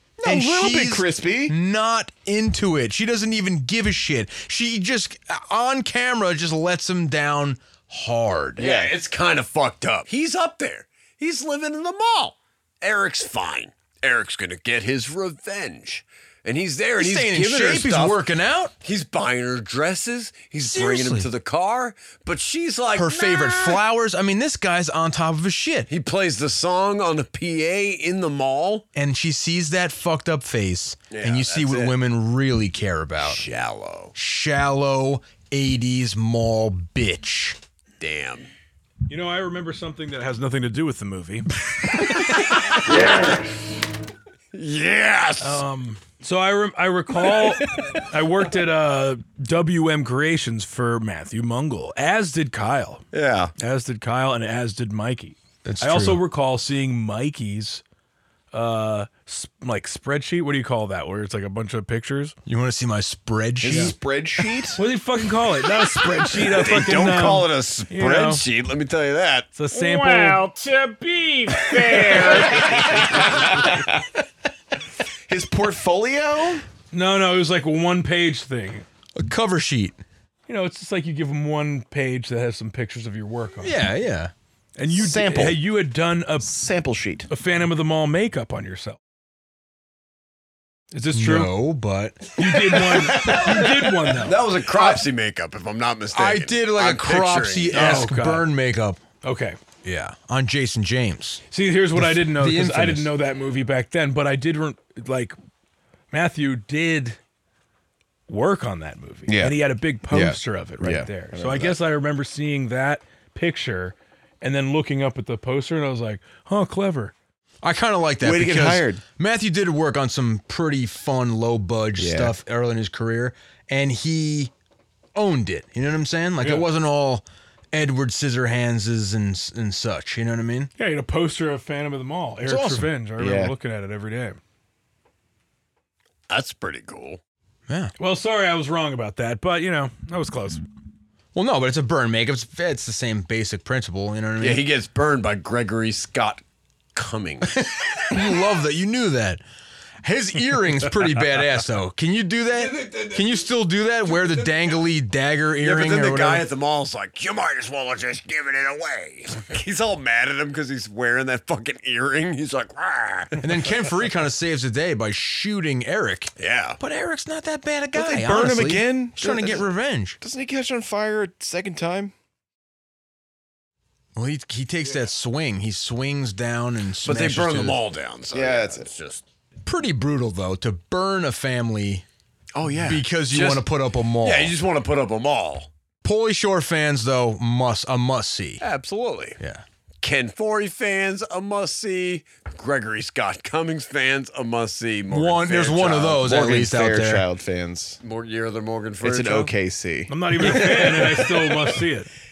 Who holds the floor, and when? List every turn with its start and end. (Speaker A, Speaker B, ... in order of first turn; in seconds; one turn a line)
Speaker A: 0.2-1.5
Speaker B: 0.2-8.7
Speaker C: 8.6-18.2
Speaker A: 8.6-8.9
Speaker B: 17.0-18.7
Speaker C: 18.8-23.8
Speaker B: 20.6-21.3
Speaker B: 22.9-25.9
Speaker C: 25.9-28.8
Speaker B: 28.9-33.4
Speaker C: 31.1-31.9
Speaker C: 33.2-34.1
Speaker B: 34.1-37.6
Speaker C: 38.0-38.5
Speaker D: 39.1-41.5
Speaker C: 42.8-43.3
Speaker C: 44.5-45.6
Speaker D: 45.4-53.0
Speaker C: 53.1-53.5
Speaker D: 53.6-57.8
Speaker B: 55.6-56.2
Speaker D: 58.5-62.3
Speaker B: 62.5-64.0
Speaker A: 63.6-64.8
Speaker D: 64.8-68.4
Speaker C: 66.3-69.5
Speaker D: 69.5-70.4
Speaker E: 69.7-73.3
Speaker A: 73.2-73.8
Speaker A: 75.3-76.6
Speaker D: 76.9-78.8
Speaker B: 79.2-80.0
Speaker D: 80.5-83.8
Speaker B: 83.6-84.3
Speaker D: 84.8-86.6
Speaker A: 84.9-85.6
Speaker A: 86.4-87.3
Speaker D: 87.3-89.0
Speaker D: 90.9-91.5
Speaker B: 91.1-93.0
Speaker D: 92.4-94.4
Speaker C: 94.2-98.1
Speaker B: 96.1-99.0
Speaker D: 97.7-98.5
Speaker D: 99.2-99.6
Speaker B: 99.8-101.4
Speaker D: 101.5-105.3
Speaker B: 102.0-103.1
Speaker D: 106.1-107.2
Speaker D: 108.3-117.1
Speaker A: 109.3-109.6
Speaker A: 110.1-111.8
Speaker B: 117.6-124.5
Speaker A: 118.2-119.0
Speaker A: 122.0-122.3
Speaker B: 125.1-130.7
Speaker D: 130.8-134.4
Speaker B: 132.4-132.9
Speaker A: 133.2-133.5
Speaker C: 136.3-137.2
Speaker B: 137.7-137.9
Speaker D: 138.0-140.6
Speaker B: 141.3-144.6
Speaker C: 144.4-146.4
Speaker C: 146.9-147.7
Speaker B: 148.1-149.4
Speaker B: 150.0-156.4
Speaker C: 152.6-153.4
Speaker C: 154.2-154.8
Speaker C: 155.6-163.4
Speaker B: 163.4-170.2
Speaker C: 166.4-166.8
Speaker A: 167.9-169.7
Speaker A: 170.2-172.1
Speaker B: 174.2-177.8
Speaker C: 177.0-179.2
Speaker A: 178.3-178.9
Speaker B: 179.6-182.0
Speaker C: 182.6-183.7
Speaker B: 182.8-184.5
Speaker C: 184.2-185.7
Speaker B: 186.0-188.6
Speaker C: 188.6-189.4
Speaker B: 189.4-189.6
Speaker C: 190.0-196.2
Speaker B: 195.1-197.2
Speaker A: 196.2-198.0
Speaker C: 198.0-199.5
Speaker A: 199.0-200.1
Speaker D: 200.1-202.1
Speaker B: 200.4-200.8